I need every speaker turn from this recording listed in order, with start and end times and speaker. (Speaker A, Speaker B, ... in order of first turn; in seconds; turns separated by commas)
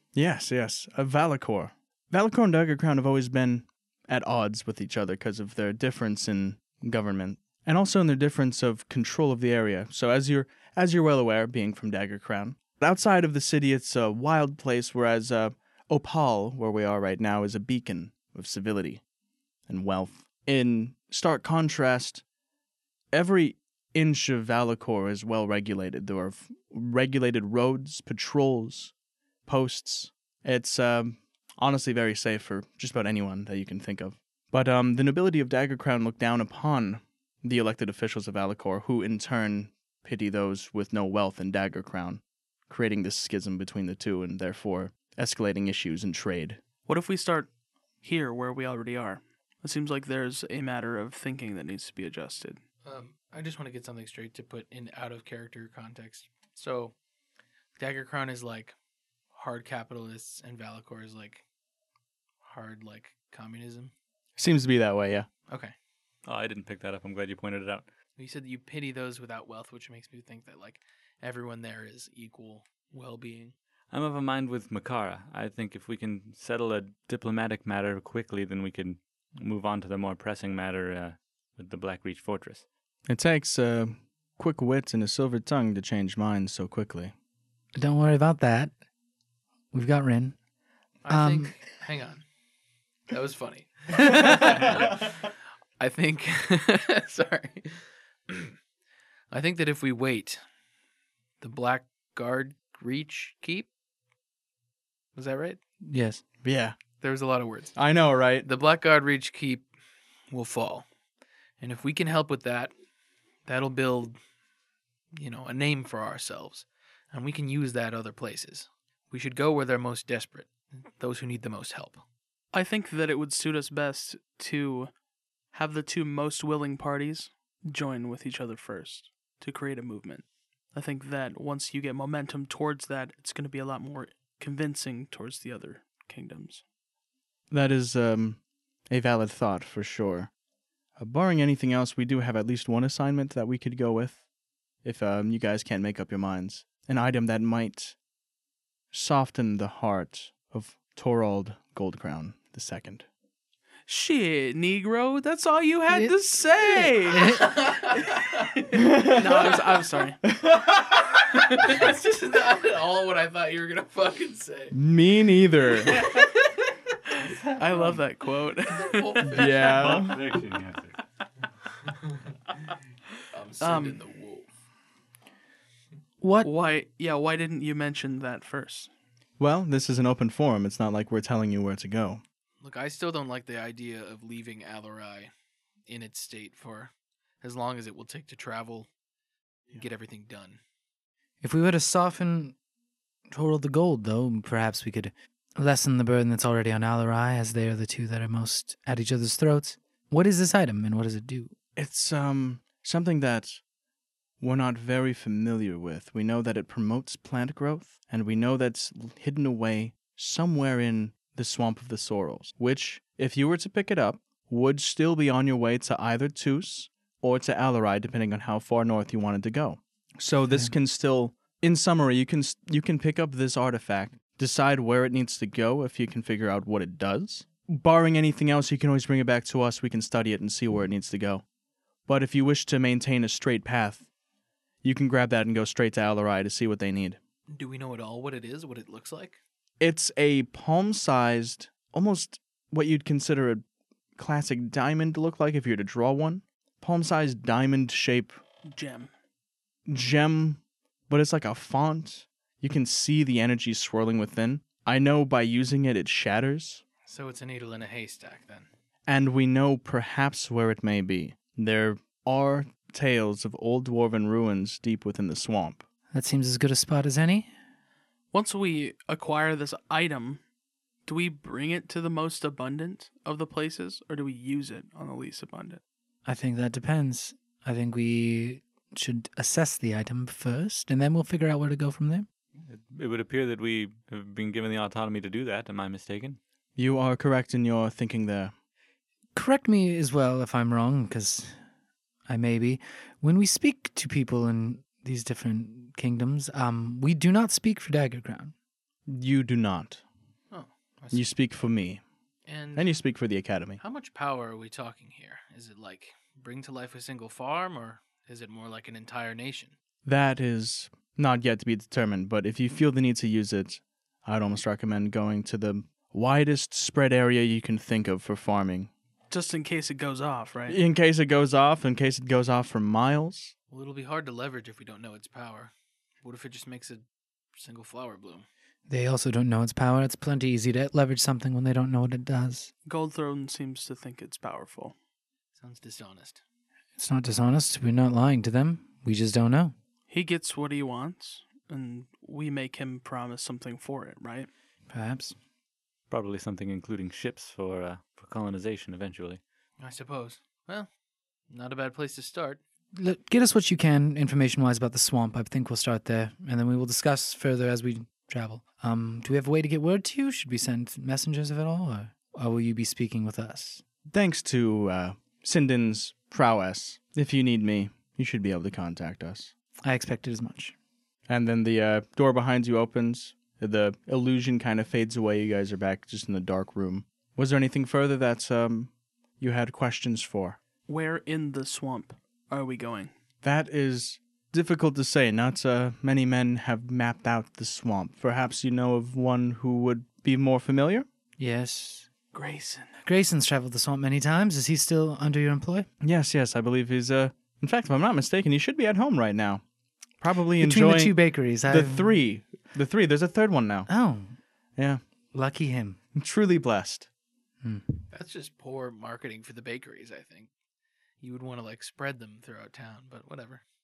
Speaker A: 0.1-19.0, Speaker A: 19.7-22.2, Speaker A: 23.1-28.9, Speaker A: 29.4-46.6, Speaker B: 46.9-47.5, Speaker B: 48.0-52.6, Speaker C: 52.8-56.9, Speaker C: 57.8-58.7, Speaker C: 59.3-61.4, Speaker C: 62.4-63.9, Speaker A: 64.4-65.3, Speaker C: 65.5-65.7, Speaker D: 66.2-67.9, Speaker C: 68.2-73.5, Speaker D: 73.9-82.7, Speaker A: 83.1-87.1, Speaker E: 87.7-88.7, Speaker E: 89.7-90.3, Speaker C: 91.0-92.2, Speaker E: 91.1-91.5, Speaker C: 93.1-95.1, Speaker E: 94.0-94.4, Speaker C: 95.8-98.5, Speaker C: 99.3-100.4, Speaker C: 101.4-103.7, Speaker C: 105.2-105.6, Speaker E: 105.8-106.2, Speaker A: 106.4-106.8, Speaker C: 107.0-107.8, Speaker A: 107.8-108.5, Speaker C: 108.4-109.7, Speaker C: 110.3-110.8, Speaker C: 111.6-112.7, Speaker C: 113.5-114.2, Speaker C: 115.1-122.0, Speaker B: 122.5-124.9, Speaker B: 125.5-136.6, Speaker A: 137.5-140.3, Speaker A: 141.0-144.2, Speaker A: 144.8-147.9, Speaker A: 148.9-153.0, Speaker B: 153.9-157.5, Speaker E: 155.9-157.5, Speaker C: 157.3-158.5, Speaker A: 158.7-159.2, Speaker B: 159.1-160.2, Speaker A: 160.3-160.8, Speaker C: 161.3-164.7, Speaker A: 164.7-166.1, Speaker C: 165.8-166.3, Speaker B: 167.4-169.6, Speaker C: 168.8-169.8, Speaker A: 169.2-170.2, Speaker D: 169.6-171.0, Speaker C: 173.3-174.5, Speaker B: 173.6-174.0, Speaker E: 176.2-176.5, Speaker B: 176.4-178.9, Speaker A: 179.4-182.2, Speaker C: 182.6-185.3, Speaker C: 185.9-188.9, Speaker C: 189.7-190.6, Speaker E: 191.4-192.6, Speaker E: 193.3-201.5, Speaker A: 201.8-203.6, Speaker A: 204.4-231.4, Speaker E: 220.5-220.7, Speaker A: 232.1-234.1, Speaker A: 234.8-237.2, Speaker C: 237.5-239.4, Speaker A: 239.8-243.6, Speaker A: 244.2-248.3, Speaker B: 248.7-249.1, Speaker A: 249.9-256.8, Speaker C: 257.1-258.7, Speaker A: 259.1-265.8, Speaker E: 266.1-267.5, Speaker B: 268.3-270.4, Speaker B: 271.1-275.8, Speaker E: 276.2-282.3, Speaker D: 282.6-286.4, Speaker A: 286.8-288.5, Speaker E: 289.3-291.6, Speaker E: 292.3-298.5, Speaker A: 299.1-300.0, Speaker C: 300.5-301.3, Speaker A: 301.1-302.0, Speaker C: 302.4-302.9, Speaker A: 302.8-303.8, Speaker C: 303.8-309.8, Speaker A: 310.0-318.9, Speaker B: 319.3-320.8, Speaker A: 320.7-323.5, Speaker C: 323.7-327.0, Speaker C: 327.5-328.4, Speaker E: 328.9-332.7, Speaker B: 332.9-334.9, Speaker C: 335.6-336.4, Speaker E: 337.0-339.7, Speaker B: 340.1-344.5, Speaker E: 344.9-345.3, Speaker D: 346.1-349.4, Speaker C: 349.8-350.9, Speaker C: 351.5-352.6, Speaker E: 352.9-363.8, Speaker A: 364.1-369.5, Speaker E: 369.8-370.7, Speaker A: 371.3-380.6, Speaker B: 380.9-383.1, Speaker A: 383.4-391.1, Speaker E: 391.4-392.1, Speaker B: 392.3-392.9, Speaker E: 393.0-395.9, Speaker A: 396.0-399.6, Speaker A: 400.2-403.9, Speaker E: 400.6-402.2, Speaker E: 403.9-404.4, Speaker E: 405.3-406.0, Speaker A: 406.1-407.1, Speaker C: 408.1-410.5, Speaker C: 411.2-413.6